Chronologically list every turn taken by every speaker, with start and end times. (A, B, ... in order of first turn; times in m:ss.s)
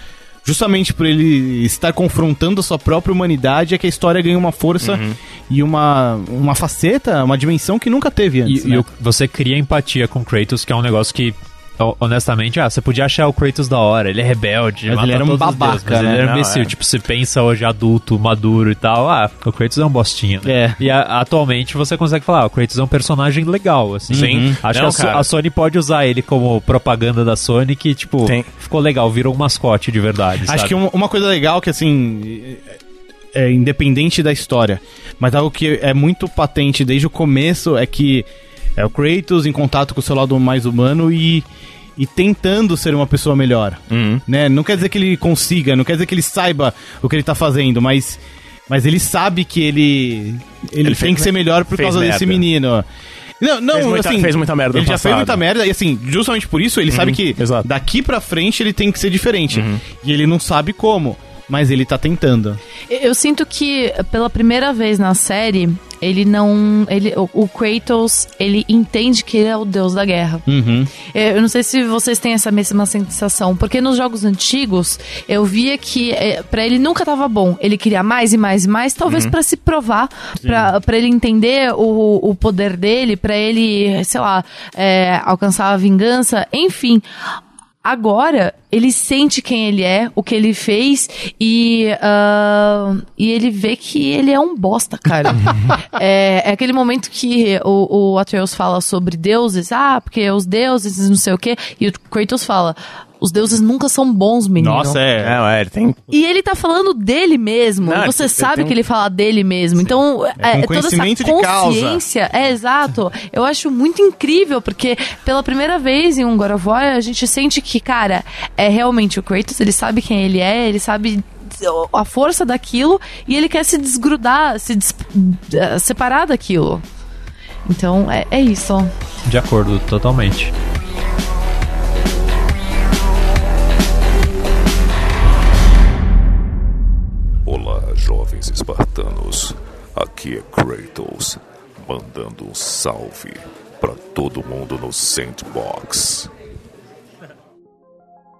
0:00.4-0:08.8 A
0:04.8-0:05.2 B
0:08.4-0:30.7 C
0:14.9-0:16.3 A
0:16.0-0:16.7 B
0:20.4-0:20.8 A
0:24.1-0:24.6 A
0:24.1-0:25.3 B
0:30.4-0:32.6 A
0:33.3-0:38.2 A
0:38.8-0:41.4 A
0:42.0-0:52.8 A
0:43.9-0:44.2 B
0:50.8-0:52.4 B
0:53.4-1:02.6 A
0:53.7-0:55.4 B
0:56.9-0:57.7 B
0:59.5-0:59.8 B
1:02.9-1:10.4 D
1:10.4-1:10.9 A
1:11.0-1:27.0 D
1:19.1-1:19.3 B
1:20.4-1:20.7 A
1:27.8-1:45.0 D
1:44.6-1:45.4 A
1:45.2-1:46.0 B
1:46.1-2:06.8 D
1:47.8-1:48.8 B
1:50.4-1:52.0 A
2:07.6-2:08.9 D
2:09.2-2:10.5 C
2:17.4-2:26.3 E